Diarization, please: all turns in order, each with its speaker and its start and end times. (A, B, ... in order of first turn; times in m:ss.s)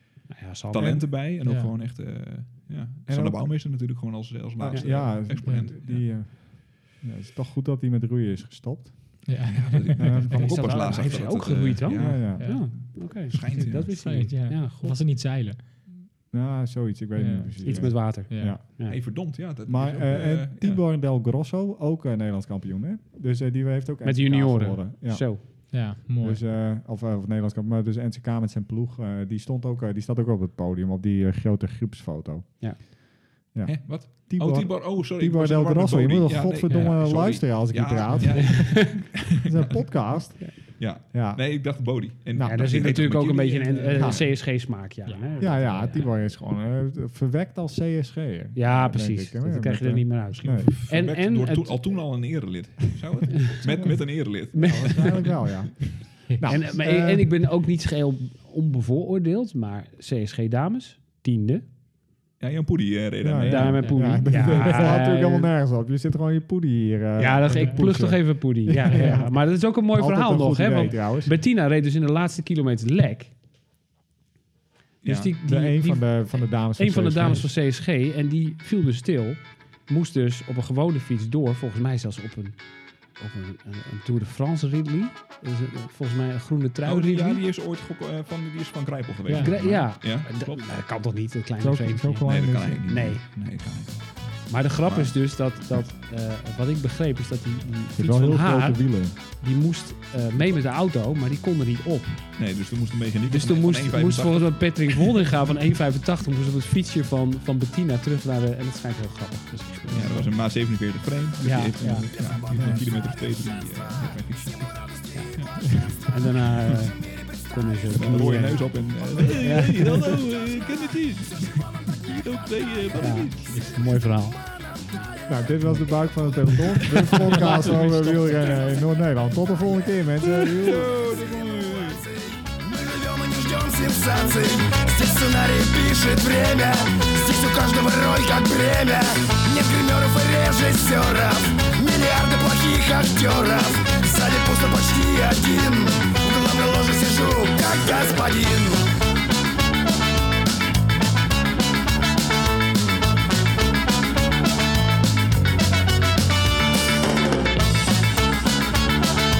0:00.3-0:01.1 A
0:00.7-0:06.0 B
0:00.8-0:01.0 C
0:01.4-0:01.7 D
0:03.1-0:03.5 C
0:04.6-0:09.4 C
0:05.4-0:05.7 D
0:09.3-0:11.0 D
0:09.5-0:13.9 B
0:10.0-0:10.5 C
0:10.3-0:15.0 A
0:12.0-0:12.4 C
0:12.4-0:15.8 D
0:16.3-0:18.6 C
0:17.2-0:18.6 D
0:17.6-0:19.0 A
0:18.9-0:20.8 B
0:19.6-0:32.9 C
0:24.0-0:25.5 A
0:25.6-0:26.4 D
0:33.5-0:41.8 C
0:33.6-0:40.0 B
0:36.7-0:37.1 A
0:38.2-0:39.1 A
0:40.8-0:44.3 B
0:42.3-0:42.8 C
0:42.4-0:46.1 A
0:43.9-0:44.3 C
0:45.4-0:50.7 C
0:48.5-0:52.0 A
0:50.3-0:55.2 B
0:53.3-0:53.6 A
0:54.5-0:55.2 A
0:54.5-0:57.3 C
0:56.4-1:01.6 A
1:02.4-1:04.0 B
1:03.2-1:11.4 C
1:03.4-1:05.5 A
1:03.8-1:04.4 D
1:07.2-1:13.3 A
1:07.5-1:07.8 D
1:15.0-1:15.3 B
1:15.0-1:22.6 A
1:15.4-1:17.5 C
1:23.2-1:27.4 A
1:26.8-1:30.6 B
1:29.3-1:29.5 D
1:29.3-1:32.2 A
1:31.6-1:33.0 C
1:32.2-1:34.2 B
1:32.9-1:33.2 A
1:34.5-1:42.3 A
1:34.8-1:35.1 B
1:37.9-1:39.1 C
1:42.4-1:45.1 B
1:43.3-1:50.3 A
1:49.9-1:55.7 B
1:51.4-1:52.1 A
1:52.5-1:52.8 C
1:56.1-1:58.7 A
1:57.9-2:03.8 B
1:59.3-2:00.2 A
2:03.0-2:04.4 A
2:05.3-2:10.9 C
2:06.9-2:07.1 B
2:07.2-2:08.6 A
2:10.2-2:12.0 B
2:12.1-2:28.8 E